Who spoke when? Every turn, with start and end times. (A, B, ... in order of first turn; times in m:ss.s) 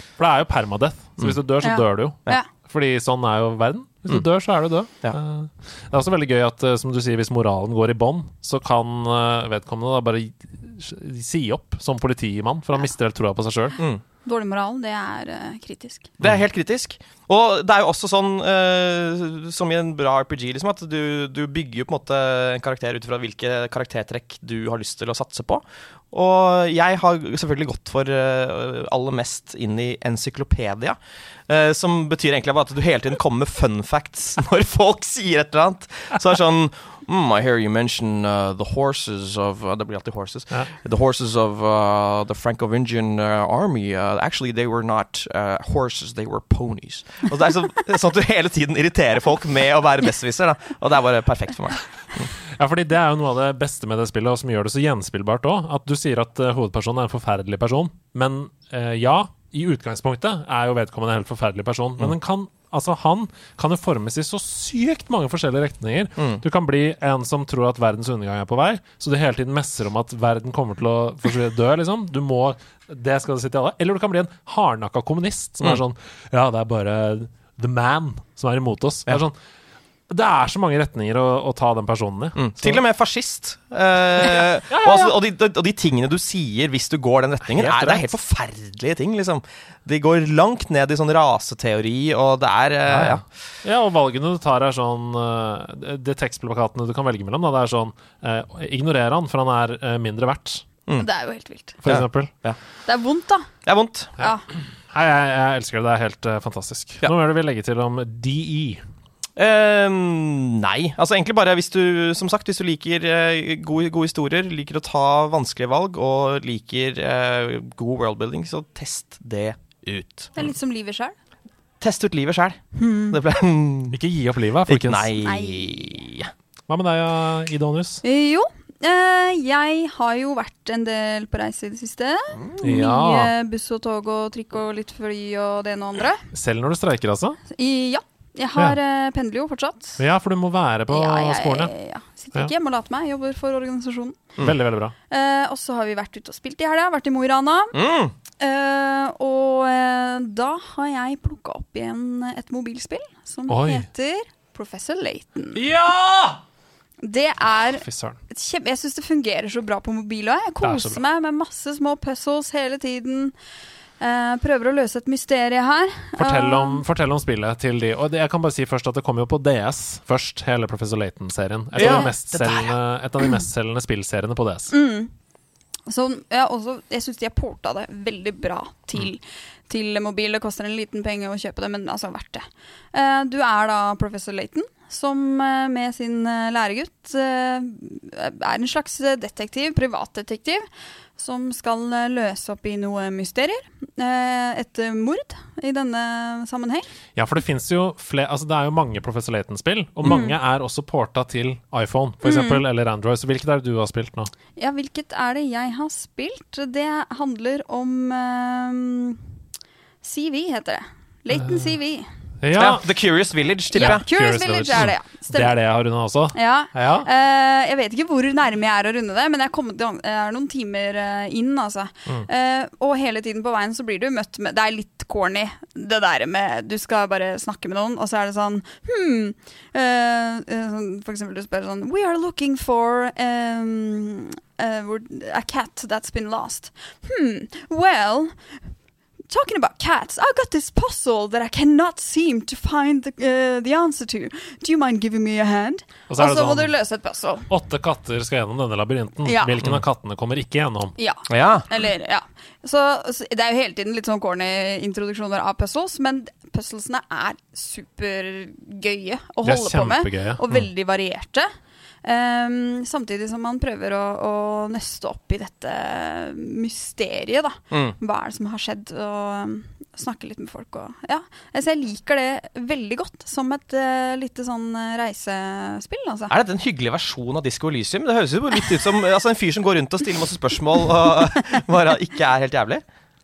0:00.2-0:13.8 A
0:01.6-0:02.4 B
0:13.8-0:14.0 C
0:14.2-0:16.1 B
0:16.2-0:52.3 C
0:52.6-1:19.4 A
1:06.2-1:06.4 C
1:20.1-1:22.8 A
1:22.4-1:33.2 C
1:24.7-1:25.1 A
1:27.4-1:28.1 A
1:32.9-1:40.6 A
1:41.0-1:41.8 B
1:41.8-1:42.3 A
1:41.8-1:42.6 C
1:42.8-1:43.5 B
1:43.6-1:44.1 C
1:44.9-1:48.8 A
1:49.4-2:00.5 C
2:00.3-2:01.1 B
2:01.8-2:04.0 C
2:02.7-2:03.2 B
2:03.9-2:05.1 A
2:04.7-2:06.3 C
2:05.2-2:06.0 B
2:06.7-2:08.0 A
2:08.0-2:16.2 B
2:12.6-2:13.3 A
2:16.3-2:17.4 A
2:17.5-2:20.0 B
2:20.0-2:21.7 A
2:20.9-2:24.2 B
2:24.4-2:24.9 A
2:25.1-2:27.8 B
2:27.7-2:28.1 C
2:28.4-2:35.6 B
2:33.5-2:33.8 A
2:35.5-2:36.4 A
2:37.0-2:43.3 B
2:37.8-2:38.2 A
2:40.6-2:41.0 A
2:44.0-2:46.8 B
2:46.2-2:54.7 A
2:51.8-2:52.7 C
2:51.8-2:52.1 B
2:54.7-2:55.1 B
2:55.9-3:10.6 B
3:11.2-3:16.9 B
3:17.1-3:24.3 A
3:20.0-3:20.3 B
3:22.2-3:22.6 B
3:24.6-3:29.2 B
3:30.0-3:32.1 B
3:31.3-3:31.7 A
3:32.4-3:32.8 A
3:32.6-3:34.0 C
3:33.7-3:35.6 B
3:33.8-3:37.1 A
3:36.3-3:58.3 B
3:59.3-4:07.5 B
4:06.1-4:06.7 A
4:07.5-4:11.0 A
4:09.2-4:09.6 B
4:11.0-4:21.5 B
4:11.3-4:11.7 C
4:19.4-4:20.7 A
4:22.0-4:36.3 B
4:36.3-4:42.8 C